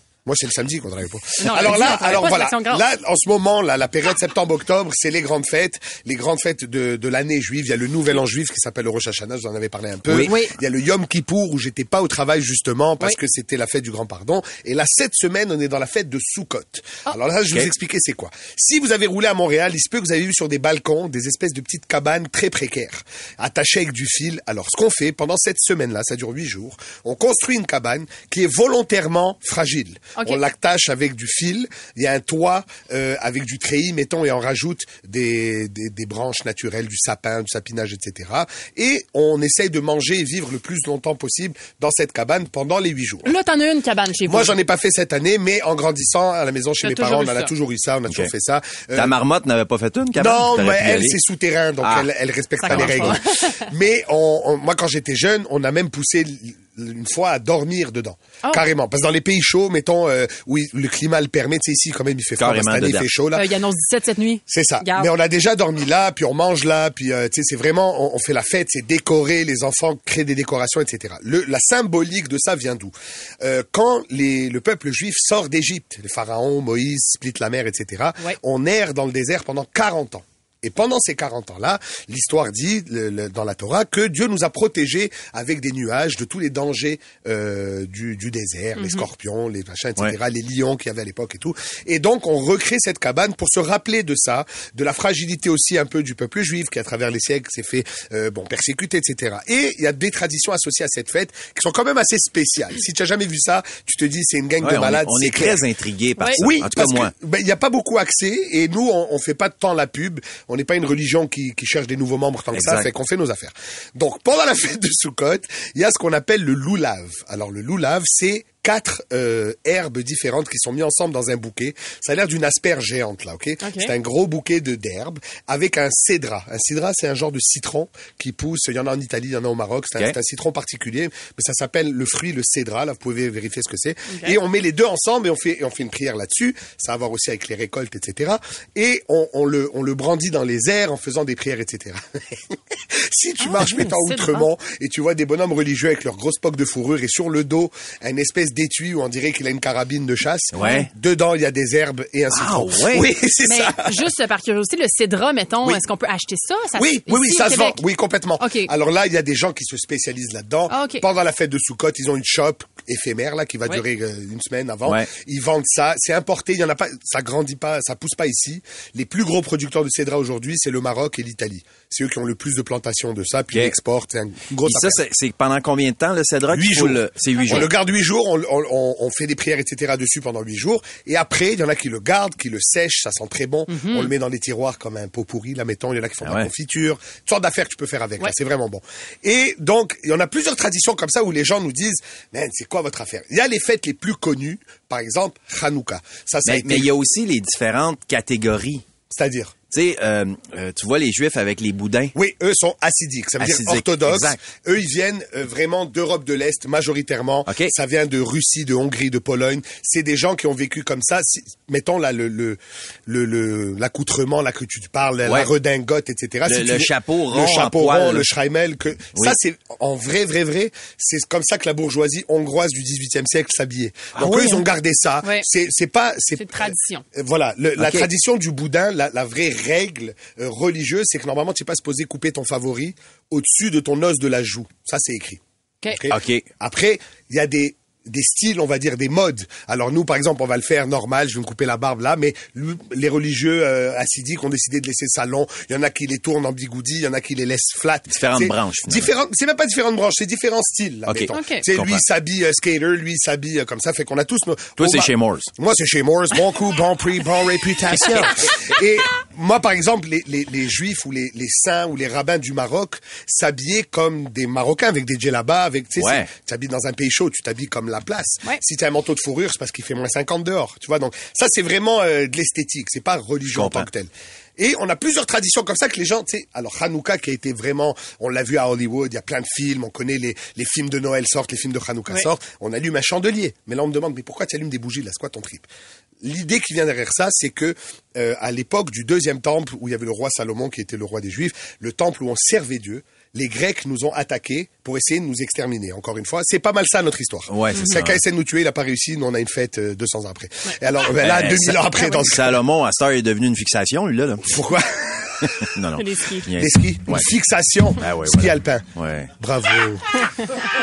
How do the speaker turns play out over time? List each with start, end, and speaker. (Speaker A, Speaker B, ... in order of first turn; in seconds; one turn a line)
Speaker A: 0.2-43.4
Speaker B: 1.4-2.8
Speaker C: 10.1-10.3
Speaker B: 10.2-10.5
Speaker B: 43.2-44.5
Speaker A: 44.2-49.2
Speaker B: 46.8-47.5
Speaker C: 48.9-51.2
Speaker A: 50.1-63.5
Speaker C: 51.8-52.1
Speaker B: 52.6-53.7
Speaker C: 52.7-53.2
Speaker C: 62.4-63.1
Speaker B: 63.3-65.1
Speaker A: 64.5-105.6
Speaker B: 88.8-89.0
Speaker C: 104.6-107.1
Speaker A: 106.3-154.1
Speaker C: 112.5-112.9
Speaker B: 123.6-123.9
Speaker B: 143.4-144.4
Speaker C: 150.5-150.9
Speaker C: 152.3-153.1
Speaker B: 153.4-157.8
Speaker A: 156.8-175.0
Speaker B: 158.4-158.7
Speaker B: 160.7-161.0
Speaker C: 164.8-165.1
Speaker C: 174.6-177.7
Speaker A: 176.5-196.9
Speaker B: 183.7-184.1
Speaker C: 186.2-186.5
Speaker C: 196.4-198.8
Speaker A: 199.1-199.5
Speaker C: 199.7-202.1
Speaker A: 202.1-285.7
Speaker C: 203.4-204.4
Speaker C: 207.5-207.7
Speaker C: 215.2-215.5
Speaker C: 216.4-218.3
Speaker C: 224.1-224.6
Speaker B: 226.3-227.0
Speaker C: 227.8-228.1
Speaker C: 236.1-236.4
Speaker C: 248.1-249.1
Speaker C: 251.1-252.0
Speaker B: 251.3-251.6
Speaker C: 254.8-255.5
Speaker C: 257.9-258.4
Speaker C: 266.0-266.3
Speaker C: 273.5-273.9
Speaker A: 286.2-302.6
Speaker C: 297.5-298.2
Speaker C: 301.2-304.5
Speaker A: 304.4-305.6
Speaker C: 305.4-307.3
Speaker B: 305.9-306.5
Speaker A: 306.5-310.1
Speaker C: 308.0-309.3